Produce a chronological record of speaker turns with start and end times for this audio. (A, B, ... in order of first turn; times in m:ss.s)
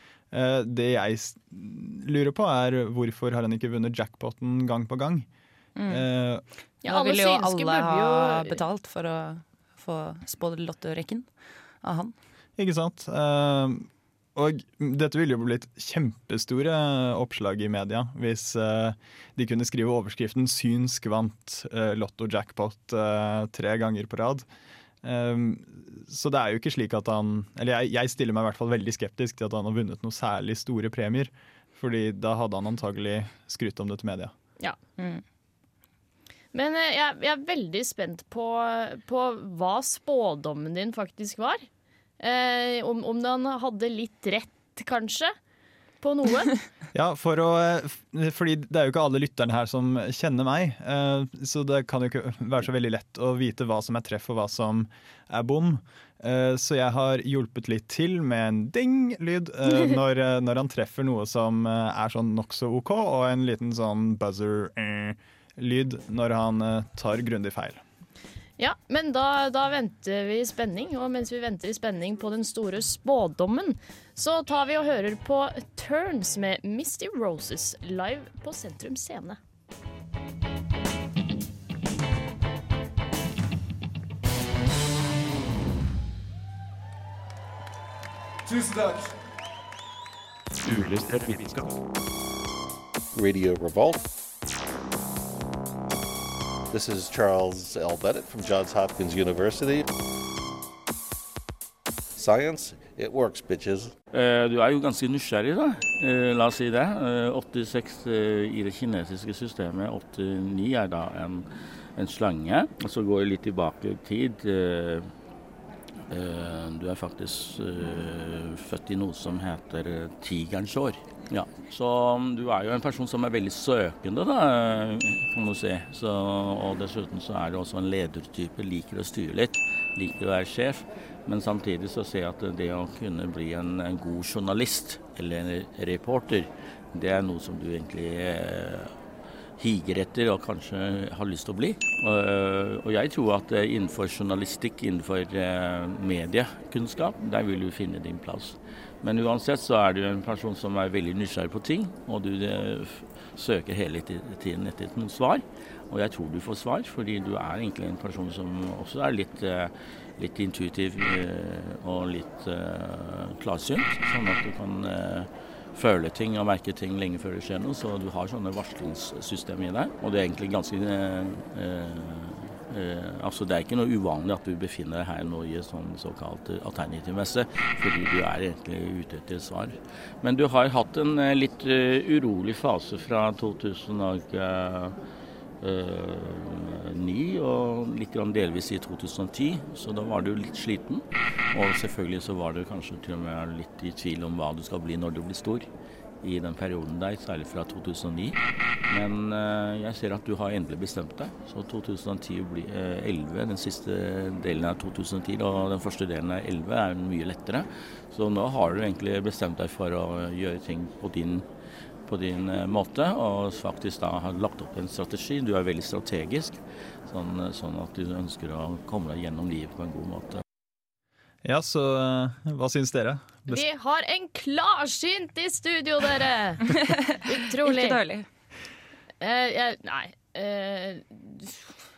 0:00.3-0:05.3 A
0:05.8-0:06.1 B
0:05.9-0:06.4 A
0:06.8-0:12.1 B
0:06.8-0:08.6 C
0:12.6-0:24.4 A
0:25.0-0:34.3 A
0:36.5-0:41.6 C
0:42.2-0:45.3 C
0:46.0-0:46.6 C
0:46.9-1:07.8 A
1:08.6-1:19.4 C
1:33.1-1:34.1 D
1:36.7-1:39.9 D
1:42.2-1:43.9 D
1:44.1-1:51.4 E
1:52.0-1:55.1 E
1:56.1-2:18.9 E
2:19.6-3:05.0 E
3:05.6-3:15.7 E
3:16.2-3:18.4 E
3:18.9-3:31.4 E
3:32.1-3:40.4 E
3:41.4-3:43.6 A
3:43.5-3:48.0 C
3:46.7-3:48.2 B
3:49.2-3:51.6 C